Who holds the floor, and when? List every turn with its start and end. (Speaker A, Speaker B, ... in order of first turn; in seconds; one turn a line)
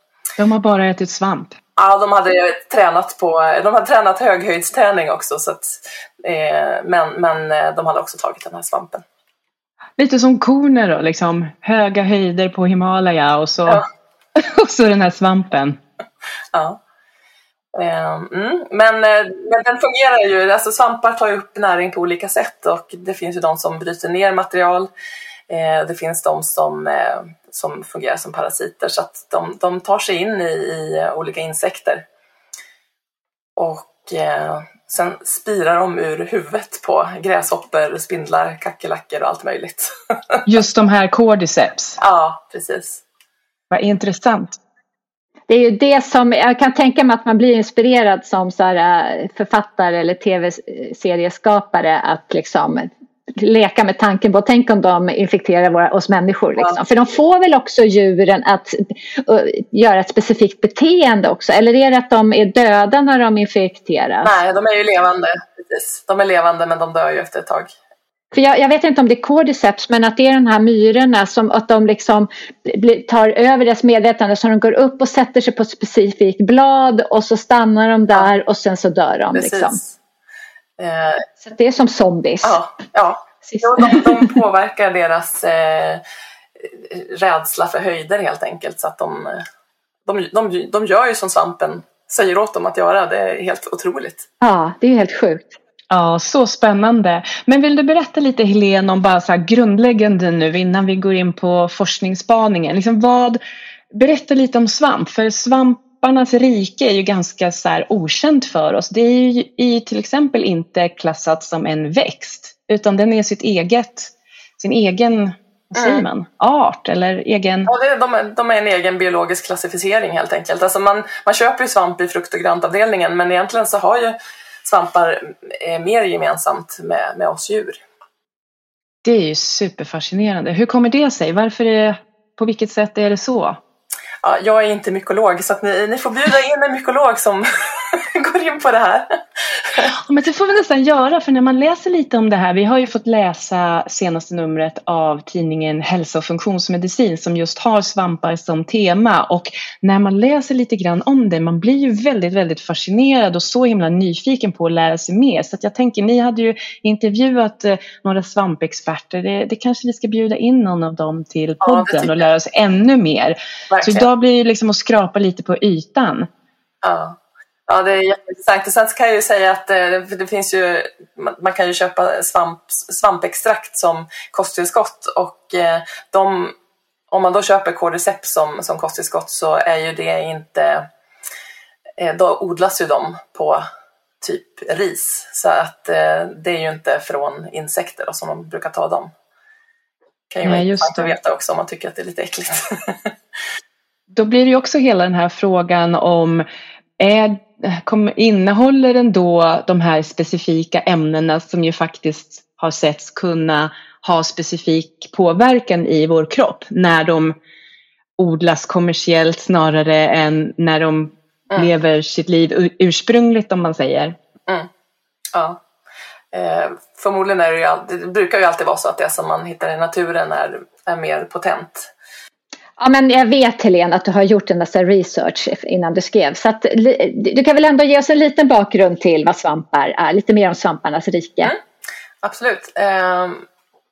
Speaker A: 0.4-1.6
Speaker B: 1.8-9.0
Speaker A: 10.0-13.8
Speaker A: 14.3-15.8
Speaker B: 16.5-16.8
Speaker B: 17.7-24.9
Speaker B: 25.5-32.0
Speaker B: 33.6-40.4
Speaker A: 40.5-42.0
Speaker B: 42.0-43.0
Speaker A: 43.7-44.6
Speaker C: 45.5-64.3
Speaker B: 64.2-67.7
Speaker C: 68.3-79.8
Speaker B: 79.3-79.9
Speaker B: 80.8-81.2
Speaker C: 81.4-82.6
Speaker B: 82.4-86.0
Speaker C: 83.5-84.3
Speaker B: 86.6-89.4
Speaker B: 90.0-94.3
Speaker C: 94.4-95.6
Speaker A: 95.9-103.4
Speaker A: 103.9-117.7
Speaker B: 115.7-116.0
Speaker B: 117.7-127.8
Speaker A: 129.0-133.6
Speaker B: 134.2-139.9
Speaker A: 140.0-166.3
Speaker B: 161.6-162.3
Speaker B: 163.7-164.1
Speaker B: 166.8-167.2
Speaker B: 167.7-176.5
Speaker B: 177.1-180.9
Speaker B: 182.0-183.6
Speaker B: 184.2-189.1
Speaker B: 190.3-193.1
Speaker A: 190.4-191.1
Speaker A: 194.1-196.4
Speaker A: 197.0-207.3
Speaker A: 208.2-214.2
Speaker B: 215.3-215.6
Speaker B: 216.3-221.9
Speaker C: 222.8-231.5
Speaker B: 232.2-233.4